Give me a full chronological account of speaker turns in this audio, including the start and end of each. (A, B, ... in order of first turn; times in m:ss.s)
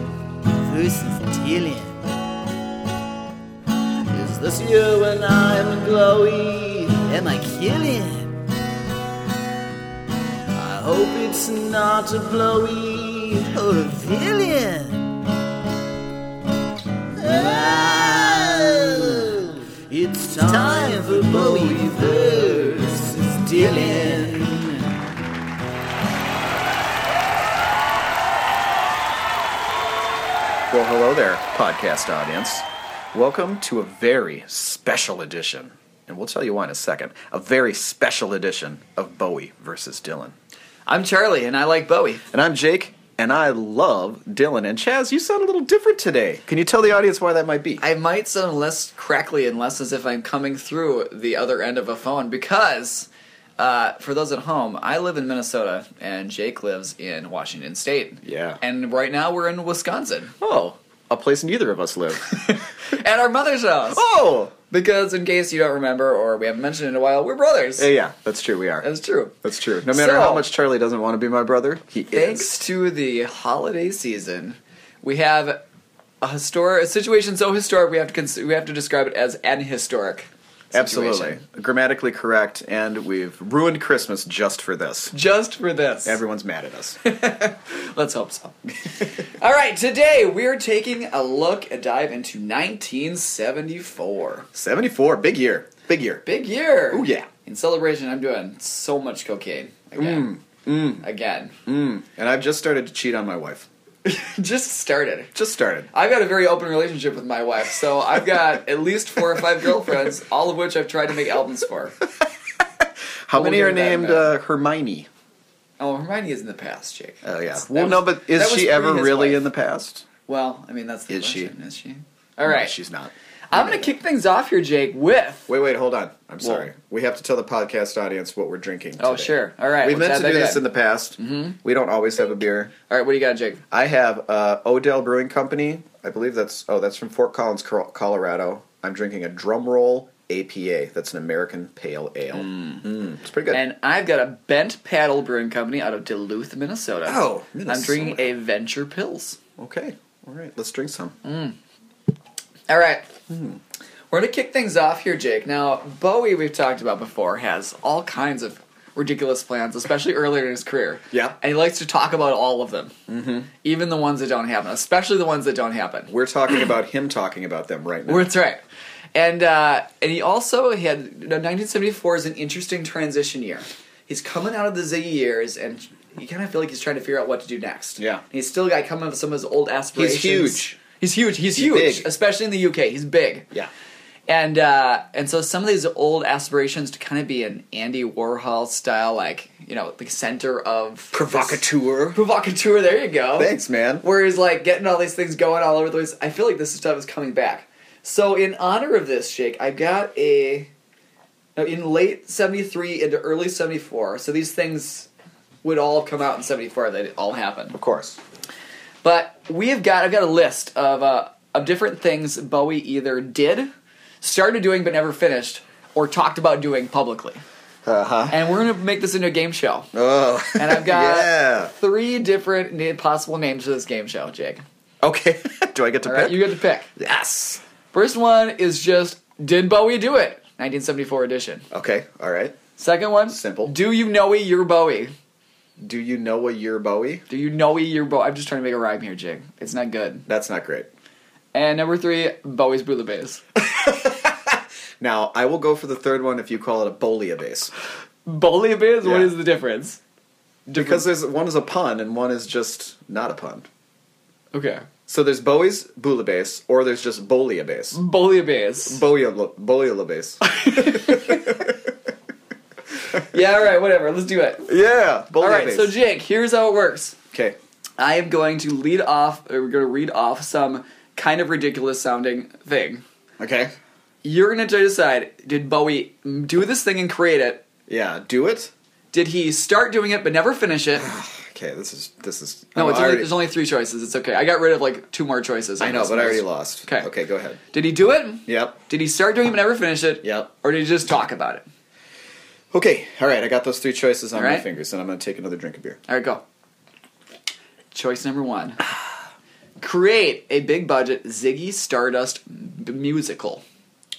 0:00.6-0:02.0 A
0:04.1-0:08.4 A
0:10.5-0:15.2 A
0:17.1-0:24.9 A
0:30.7-0:40.4 B
0:40.9-0:42.2 C
0:42.3-0:47.8 B
0:47.8-1:00.4 C
0:58.2-0:58.6 B
1:00.4-1:02.5 B
1:02.3-1:04.1 C
1:03.9-1:04.5 B
1:04.6-1:07.9 C
1:07.8-1:08.9 B
1:08.8-1:09.4 C
1:09.4-1:12.6 B
1:09.9-1:10.5 C
1:12.1-1:15.6 C
1:16.2-1:21.4 C
1:20.7-1:25.1 B
1:25.1-1:26.2 C
1:26.0-1:27.0 B
1:27.0-1:34.5 C
1:34.5-1:36.2 B
1:36.2-1:40.4 C
1:36.9-1:37.3 B
1:40.0-1:41.0 B
1:41.0-1:41.6 C
1:41.7-1:43.7 B
1:44.0-1:45.3 C
1:45.3-1:45.9 B
1:45.9-1:52.0 C
1:52.8-1:55.1 B
1:53.3-1:54.3 C
1:55.8-1:59.4 C
1:57.2-2:00.1 B
2:00.3-2:02.8 C
2:01.1-2:01.5 B
2:02.4-2:04.0 B
2:03.5-2:05.5 C
2:05.5-2:12.7 B
2:09.0-2:10.6 C
2:11.2-2:11.6 C
2:12.9-2:13.6 C
2:13.7-2:23.6 B
2:22.3-2:23.0 C
2:23.5-2:29.4 C
2:27.1-2:28.3 B
2:29.6-2:31.2 B
2:31.2-2:31.6 C
2:32.7-2:33.2 C
2:33.3-2:33.6 B
2:34.1-2:42.9 C
2:41.1-2:41.4 B
2:43.1-2:43.5 B
2:43.6-2:46.1 C
2:46.1-2:48.3 B
2:48.1-2:48.6 C
2:49.2-3:03.5 C
2:58.0-2:58.2 B
3:00.0-3:00.8 B
3:01.5-3:02.1 B
3:04.3-3:20.7 C
3:11.1-3:12.2 B
3:13.4-3:14.0 B
3:21.6-3:25.1 C
3:25.6-3:27.8 C
3:27.8-3:28.2 B
3:29.0-3:33.7 C
3:34.2-3:37.4 C
3:37.8-3:38.4 B
3:38.3-3:39.9 C
3:39.9-3:41.7 B
3:40.6-3:44.6 C
3:45.0-3:47.6 B
3:46.0-3:46.9 C
3:47.9-3:51.7 C
3:51.7-3:52.6 B
3:52.8-3:55.1 C
3:53.3-3:53.8 B
3:55.8-3:57.2 B
3:57.3-4:00.3 C
4:00.3-4:00.9 B
4:01.5-4:03.4 C
4:03.6-4:07.7 B
4:08.3-4:10.0 C
4:09.0-4:09.4 B
4:10.7-4:11.0 C
4:10.7-4:13.7 B
4:14.5-4:14.9 C
4:15.1-4:18.0 B
4:17.9-4:19.0 C
4:18.9-4:21.8 B
4:20.5-4:21.6 C
4:23.2-4:24.7 C
4:24.7-4:26.0 B
4:25.4-4:27.2 C
4:28.0-4:33.0 C
4:33.4-4:33.7 B
4:34.2-4:37.6 C
4:37.9-4:38.7 B
4:39.1-4:41.1 C
4:41.0-4:43.4 B
4:42.8-4:47.1 C
4:45.8-4:47.6 B
4:47.7-4:51.6 C
4:48.5-4:48.8 B
4:50.2-4:50.5 B
4:52.7-4:56.0 B
4:54.4-4:54.7 C
4:56.1-4:56.4 C
4:57.9-4:58.8 C
4:59.8-5:03.6 C